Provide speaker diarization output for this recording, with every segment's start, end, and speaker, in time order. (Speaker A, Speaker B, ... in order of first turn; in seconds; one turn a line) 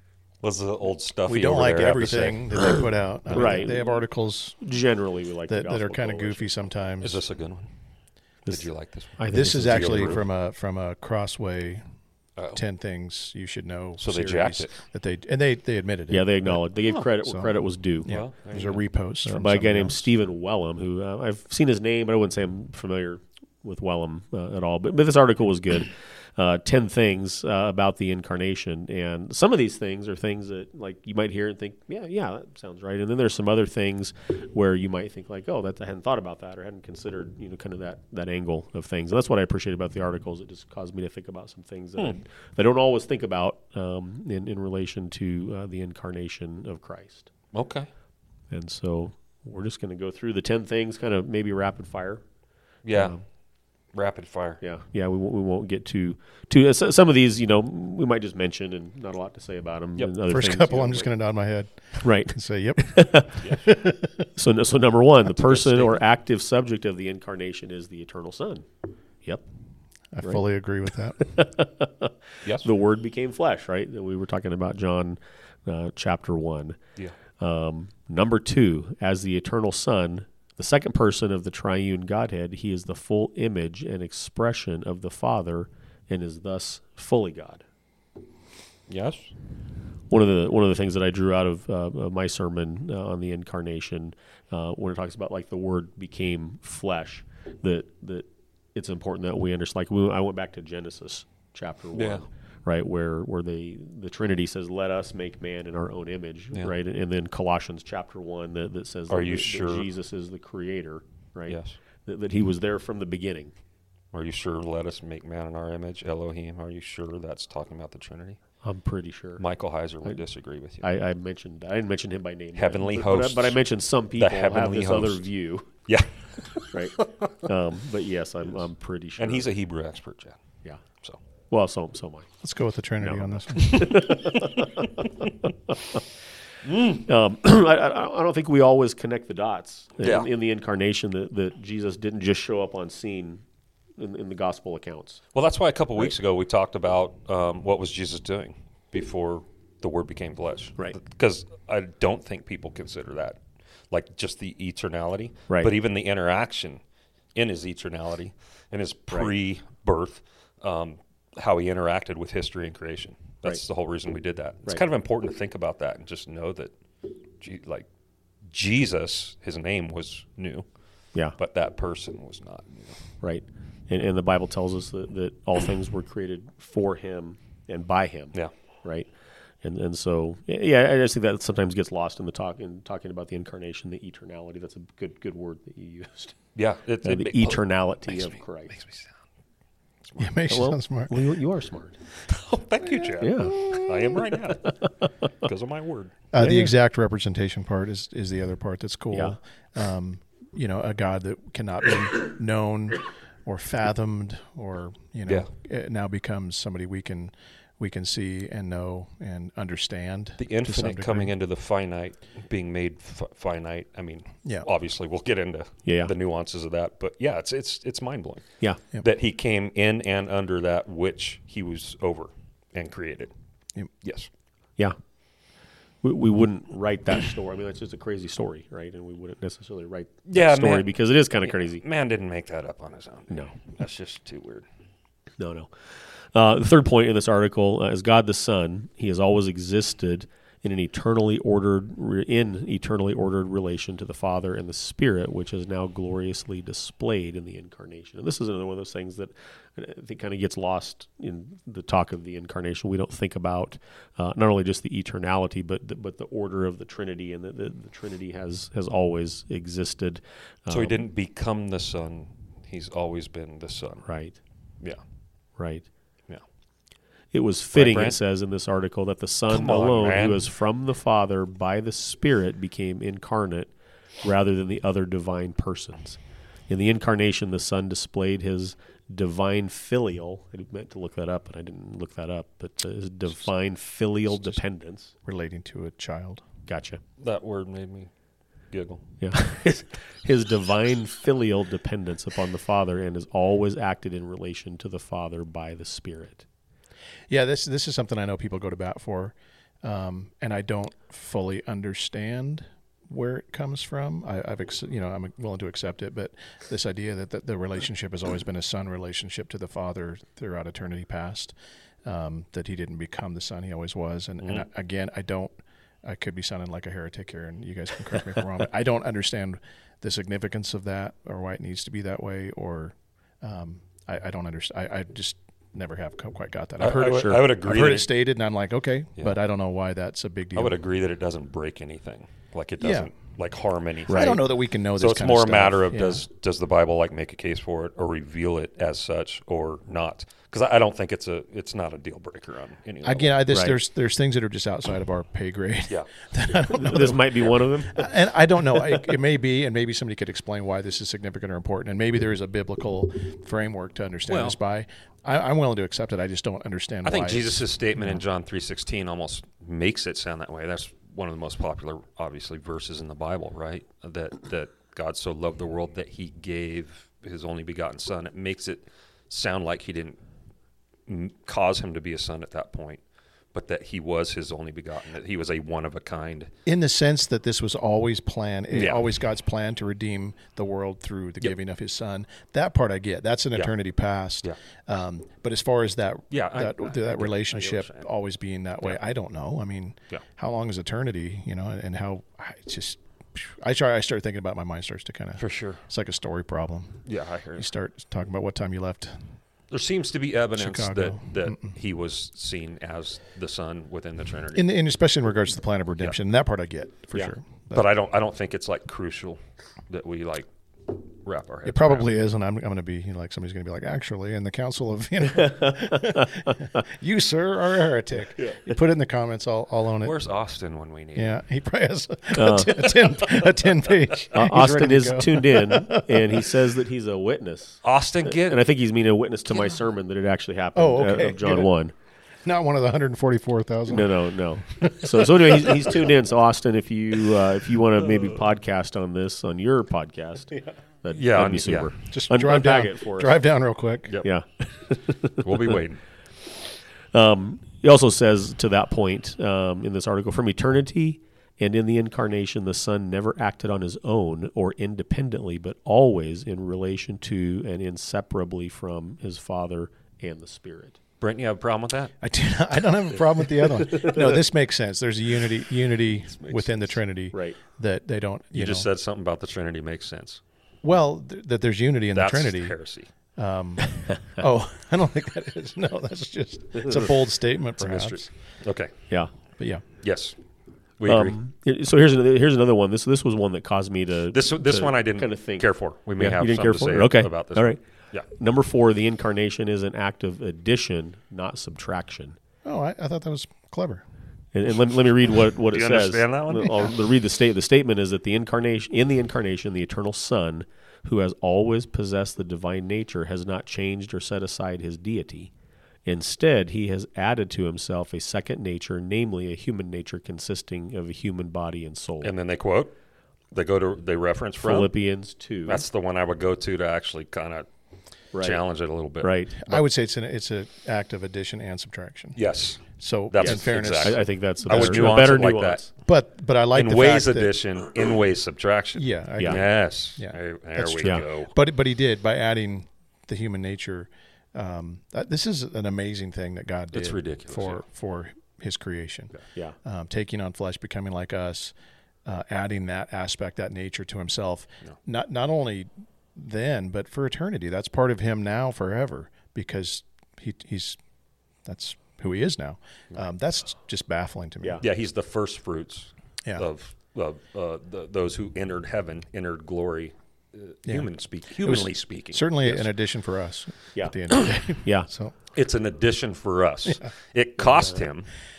Speaker A: 0.4-3.5
Speaker B: 1.3-4.6
Speaker C: 3.3-3.8
Speaker C: 4.6-6.5
Speaker B: 5.5-7.2
Speaker A: 7.0-7.7
Speaker A: 8.5-10.2
Speaker C: 9.2-10.2
Speaker B: 9.3-11.8
Speaker B: 12.5-20.1
Speaker A: 14.0-14.7
Speaker C: 16.1-18.1
Speaker A: 18.1-18.8
Speaker C: 19.2-47.3
Speaker A: 47.5-47.9
Speaker C: 48.5-52.2
Speaker A: 52.9-53.1
Speaker C: 52.9-53.2
Speaker A: 53.9-54.6
Speaker C: 54.6-61.1
Speaker B: 60.2-64.3
Speaker C: 62.0-63.4
Speaker C: 64.4-68.7
Speaker A: 65.4-65.9
Speaker B: 70.1-71.3
Speaker C: 71.2-76.8
Speaker C: 77.4-87.6
Speaker A: 88.9-89.3
Speaker C: 90.1-113.5
Speaker A: 102.0-102.2
Speaker A: 109.1-109.9
Speaker A: 111.5-111.8
Speaker A: 114.1-118.4
Speaker C: 118.6-119.4
Speaker A: 119.4-120.9
Speaker C: 120.8-125.7
Speaker A: 122.5-123.6
Speaker A: 124.2-125.2
Speaker A: 125.9-127.3
Speaker C: 126.7-129.5
Speaker A: 129.2-130.4
Speaker C: 131.5-132.3
Speaker B: 132.4-134.1
Speaker C: 133.0-136.0
Speaker A: 134.0-134.6
Speaker A: 136.6-137.0
Speaker C: 136.9-143.4
Speaker A: 140.0-140.3
Speaker C: 144.0-145.2
Speaker A: 145.3-153.4
Speaker A: 153.9-156.8
Speaker A: 157.3-166.7
Speaker A: 167.4-167.9
Speaker A: 168.5-170.6
Speaker A: 171.4-173.0
Speaker C: 173.2-179.1
Speaker C: 179.6-186.4
Speaker A: 186.6-189.1
Speaker C: 187.0-188.8
Speaker B: 190.2-191.2
Speaker C: 190.5-192.0
Speaker A: 192.3-194.8
Speaker C: 193.2-193.6
Speaker A: 195.4-196.1
Speaker B: 196.3-211.3
Speaker C: 196.4-196.7
Speaker A: 210.4-223.3
Speaker C: 215.9-216.1
Speaker A: 224.0-224.3
Speaker C: 226.0-231.8
Speaker A: 230.3-234.7
Speaker C: 235.4-261.0
Speaker A: 260.7-264.1
Speaker C: 264.0-264.4
Speaker C: 265.6-265.9
Speaker C: 267.3-273.7
Speaker A: 267.8-268.2
Speaker A: 269.5-270.5
Speaker C: 274.2-285.1
Speaker B: 285.2-286.4
Speaker C: 286.6-287.0
Speaker A: 287.2-288.1
Speaker A: 288.7-289.0
Speaker C: 289.2-296.4
Speaker B: 297.3-330.8
Speaker A: 326.8-328.1
Speaker C: 327.1-327.4
Speaker A: 330.5-343.4
Speaker B: 332.8-333.1
Speaker C: 334.1-334.4
Speaker B: 334.1-336.2
Speaker B: 343.0-347.2
Speaker C: 343.5-343.8
Speaker C: 346.6-348.1
Speaker B: 347.9-357.7
Speaker A: 354.3-354.6
Speaker A: 357.0-370.2
Speaker A: 371.1-373.0
Speaker A: 373.5-376.5
Speaker B: 376.6-397.0
Speaker A: 378.7-379.1
Speaker A: 386.3-388.1
Speaker A: 395.4-395.8
Speaker A: 397.1-397.7
Speaker B: 397.6-399.3
Speaker A: 399.7-404.7
Speaker B: 400.6-401.7
Speaker B: 404.5-407.9
Speaker A: 407.7-412.0
Speaker B: 411.6-420.2
Speaker C: 415.4-416.6
Speaker A: 420.0-421.3
Speaker B: 421.1-426.6
Speaker C: 422.3-422.9
Speaker C: 424.3-431.9
Speaker A: 427.8-428.6
Speaker B: 430.8-431.7
Speaker B: 432.4-436.1
Speaker C: 433.9-443.4
Speaker A: 441.1-441.9
Speaker B: 442.1-444.2
Speaker C: 444.2-445.8
Speaker A: 445.4-446.0
Speaker C: 447.1-461.0
Speaker A: 461.2-462.1
Speaker B: 462.2-468.9
Speaker A: 463.7-464.1
Speaker C: 467.3-467.6
Speaker A: 468.5-470.4
Speaker B: 470.8-472.8
Speaker A: 472.1-473.1
Speaker B: 473.4-478.3
Speaker A: 477.8-478.9
Speaker B: 479.6-479.8
Speaker A: 480.0-480.4
Speaker A: 481.0-481.4
Speaker C: 481.1-487.8
Speaker A: 484.3-488.3
Speaker C: 488.3-492.4
Speaker B: 492.6-494.0
Speaker C: 494.5-505.5
Speaker A: 495.7-497.0
Speaker C: 506.1-512.3
Speaker A: 512.2-512.9
Speaker A: 513.5-514.9
Speaker C: 514.6-515.8
Speaker A: 515.7-517.7
Speaker C: 518.3-518.6
Speaker A: 518.4-519.4
Speaker C: 519.2-519.8
Speaker B: 519.5-522.4
Speaker A: 522.4-525.8
Speaker B: 523.0-525.2
Speaker C: 523.4-525.9
Speaker B: 526.0-527.5
Speaker A: 526.7-531.5
Speaker B: 529.0-551.0
Speaker A: 536.9-537.8
Speaker B: 551.6-554.8
Speaker A: 554.8-562.9
Speaker B: 561.6-565.3
Speaker A: 565.5-568.3
Speaker C: 567.6-568.0